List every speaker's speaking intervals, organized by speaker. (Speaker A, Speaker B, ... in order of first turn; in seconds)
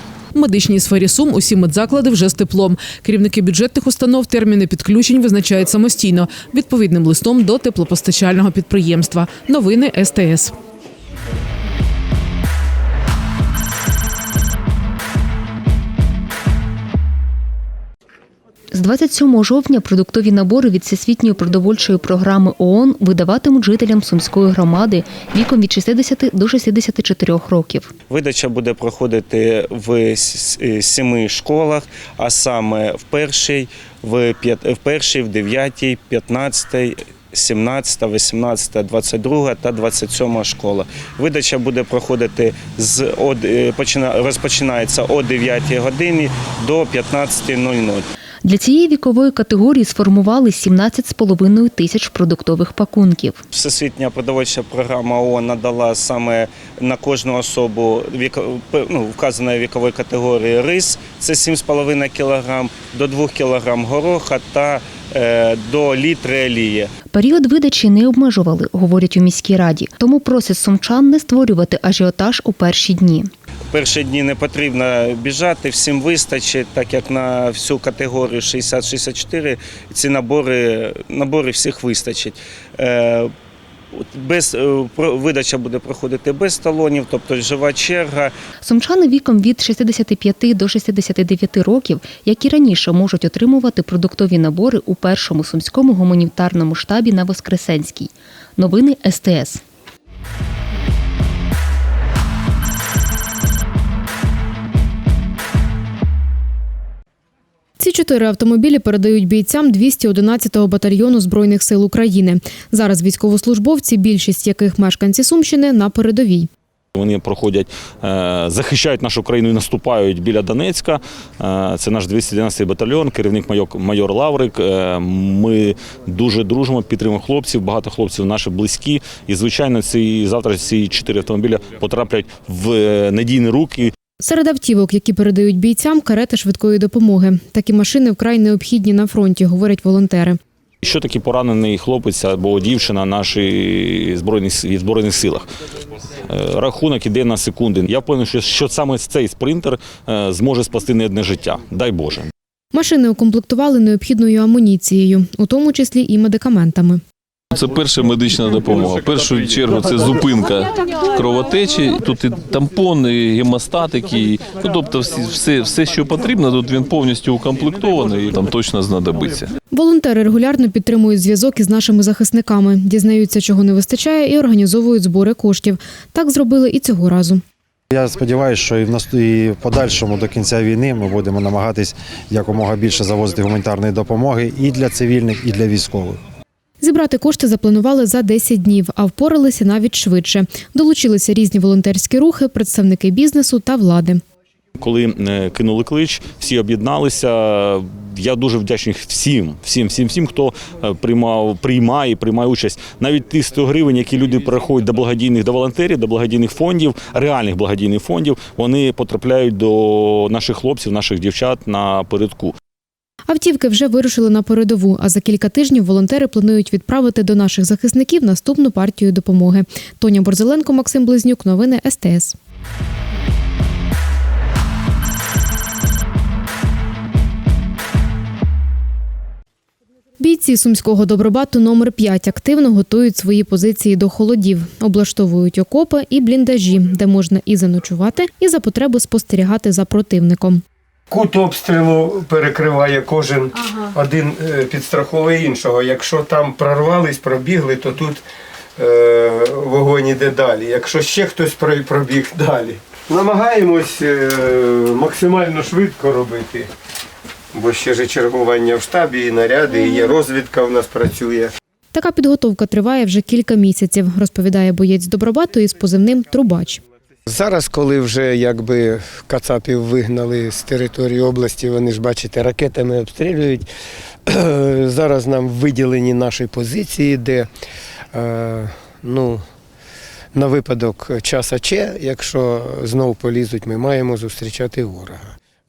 Speaker A: 0.3-10.5
Speaker B: 18.7-27.9, 48.5-53.4, 67.1-73.3, 88.6-99.6
Speaker C: 28.1-48.0, 53.5-66.9, 73.7-83.3, 84.0-88.3
Speaker D: 107.8-116.5, 134.2-140.4, 152.7-157.0, 169.7-177.4, 186.8-194.2, 213.3-222.4, 230.2-240.6, 261.9-266.8
Speaker E: 117.0-133.9, 140.8-145.5, 146.3-152.3, 194.8-212.5
Speaker F: 157.5-169.5
Speaker G: 177.9-186.2
Speaker H: 241.1-248.2, 248.8-256.7, 257.5-261.5, 267.3-273.7, 274.3-277.5, 278.1-279.4, 280.3-285.3